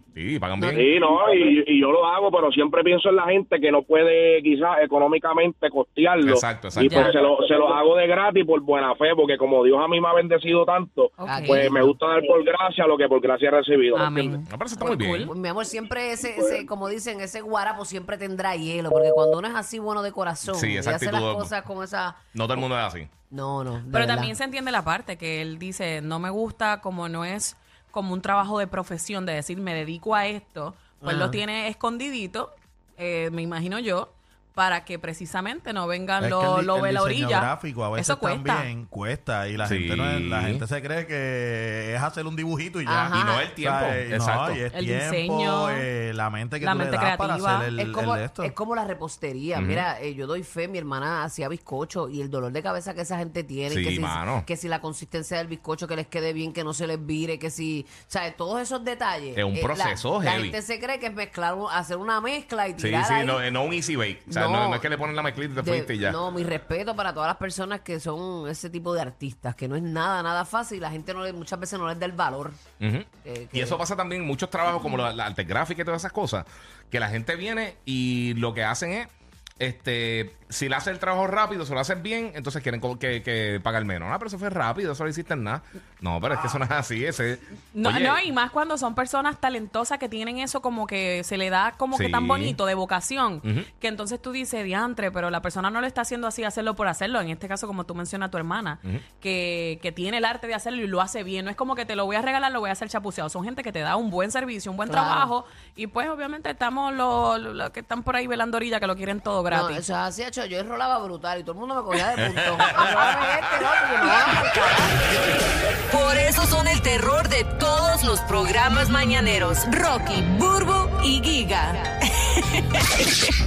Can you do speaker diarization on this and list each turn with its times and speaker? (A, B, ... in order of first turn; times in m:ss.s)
0:00.1-0:00.8 A
0:00.6-0:00.9 B
0:00.8-0:14.4 C
0:06.2-0:07.1 A
0:06.8-0:07.1 D
0:11.2-0:11.7 D
0:11.2-0:12.0 B
0:13.9-0:15.3 D
0:14.4-0:15.3 A
0:15.0-0:22.7 B
0:20.5-0:21.5 A
0:22.3-0:23.1 A
0:23.3-0:24.3 B
0:23.9-0:38.7 D
0:31.0-0:31.4 B
0:36.2-0:48.5 E
0:39.6-0:40.6 A
0:42.8-0:43.5 B
0:43.0-0:44.6 A
0:44.7-0:45.9 D
0:46.6-0:47.7 D
0:47.7-1:03.4 B
0:49.5-0:49.8 A
0:53.7-0:54.5 A
0:59.4-1:00.6 A
1:02.8-1:06.2 A
1:04.3-1:04.9 B
1:05.6-1:12.6 B
1:12.8-1:28.2 A
1:13.2-1:13.8 B
1:27.7-1:49.8 D
1:31.9-1:32.6 A
1:44.8-1:45.3 B
1:49.5-1:55.1 B
1:52.8-1:53.3 A
1:55.9-2:03.0 F